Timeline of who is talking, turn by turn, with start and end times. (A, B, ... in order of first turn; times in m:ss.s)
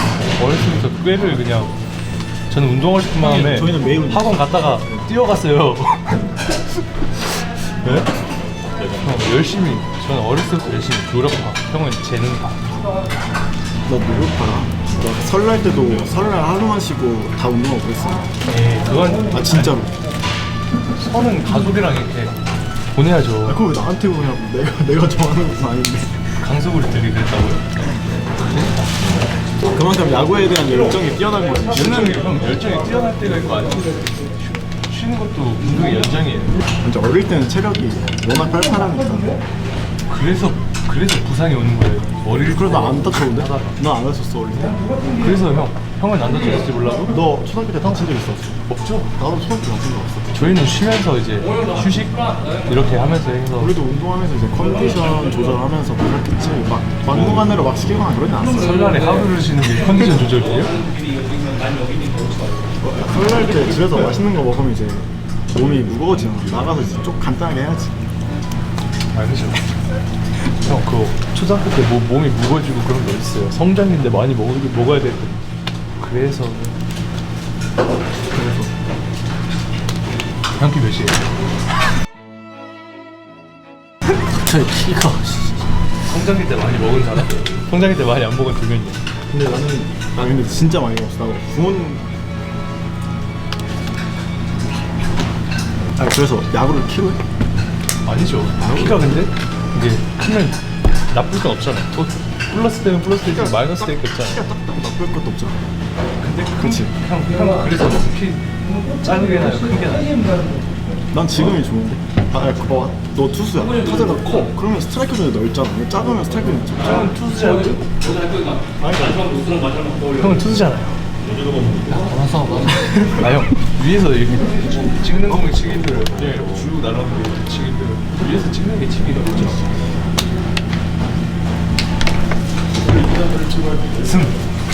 0:00.4-0:01.8 A
0:02.5-0:06.3 A
0:03.2-0:05.0 B
0:07.8-0:08.1 A
0:09.0-0:12.8 A
0:13.9-0:18.3 B
0:18.5-0:19.8 A
0:19.3-0:19.9 B
0:21.0-0:22.4 A
0:22.9-0:23.6 A
0:23.4-0:26.4 B
0:26.4-0:27.7 A
0:29.7-0:32.2 B
0:31.7-0:36.6 A
0:36.8-0:39.4 B
0:40.1-0:43.8 A
0:42.5-0:44.8 B
0:45.1-0:47.2 A
0:47.1-0:48.6 B
0:47.8-0:48.1 A
0:48.7-0:49.1 A
0:49.2-0:50.6 B
0:50.3-0:53.8 A
0:53.6-0:58.7 B
0:58.6-1:00.8 A
1:02.8-1:07.9 B
1:09.1-1:09.7 A
1:10.6-1:15.4 A
1:16.0-1:16.8 A
1:20.5-1:21.3 A
1:24.4-1:25.7 C
1:26.0-1:29.0 A
1:29.3-1:32.0 B
1:36.0-1:37.2 B
1:38.0-1:40.6 A
1:38.6-1:39.1 B
1:41.1-1:44.4 A
1:43.2-1:45.6 B
1:46.2-1:50.2 A
1:46.6-1:46.9 B
1:51.1-1:57.1 B
1:56.8-1:58.1 A
1:58.8-1:59.3 B
2:00.1-2:01.0 A
2:01.8-2:03.1 C
2:03.2-2:09.7 A
2:14.0-2:14.4 A